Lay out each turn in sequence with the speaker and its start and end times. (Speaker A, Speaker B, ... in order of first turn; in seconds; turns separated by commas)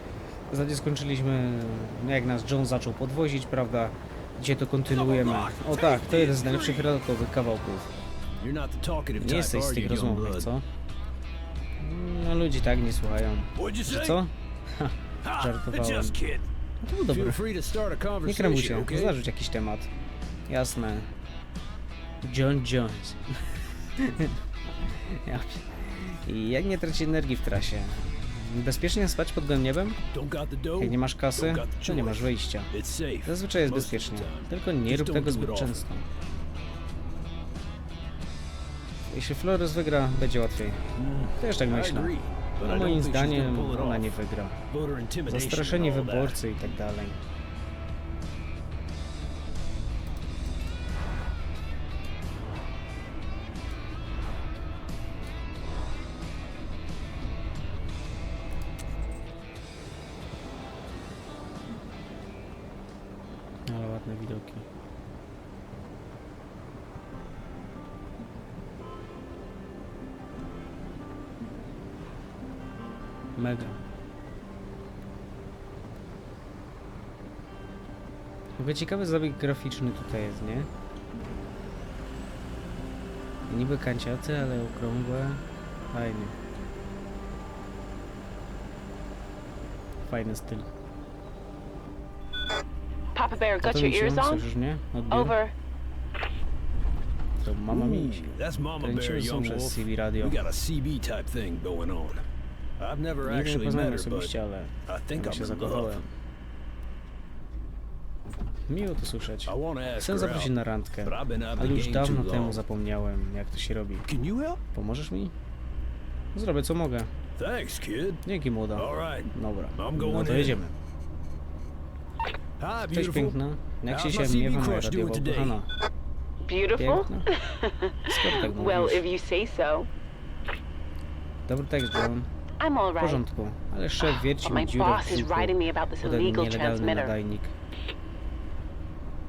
Speaker A: 0.5-7.9, Speaker B: 4.9-6.9, Speaker B: 8.4-10.5, Speaker A: 9.2-10.6, Speaker A: 11.8-16.2, Speaker B: 13.6-14.2, Speaker B: 15.2-16.5, Speaker A: 16.8-17.4, Speaker B: 17.1-19.2, Speaker A: 18.2-19.9, Speaker A: 20.5-21.1, Speaker A: 22.2-23.4, Speaker A: 24.0-24.4, Speaker A: 25.0-30.0, Speaker B: 30.1-35.8, Speaker A: 30.8-32.7, Speaker A: 33.2-36.1, Speaker A: 39.1-40.8, Speaker B: 41.0-44.1, Speaker A: 41.4-44.6, Speaker B: 44.7-46.4, Speaker A: 45.3-47.2, Speaker A: 63.7-64.7, Speaker A: 73.3-73.8, Speaker A: 78.6-80.7, Speaker A: 83.5-86.4, Speaker A: 90.0-90.7, Speaker C: 93.1-94.4, Speaker A: 93.6-95.3, Speaker C: 95.1-95.5, Speaker A: 97.4-100.4, Speaker B: 97.7-102.2, Speaker B: 102.8-106.0, Speaker A: 103.2-106.1, Speaker A: 108.7-114.1, Speaker B: 109.5-110.5, Speaker B: 111.0-112.6, Speaker B: 114.0-114.6, Speaker A: 114.7-115.3, Speaker A: 116.3-117.1, Speaker B: 117.4-118.2, Speaker A: 118.2-120.7, Speaker B: 118.7-120.6, Speaker B: 122.6-125.6, Speaker A: 122.8-125.7, Speaker C: 126.4-129.9, Speaker A: 126.8-127.3, Speaker A: 128.1-129.0, Speaker A: 131.5-132.3, Speaker C: 132.6-133.2, Speaker A: 133.0-137.5, Speaker C: 134.0-137.1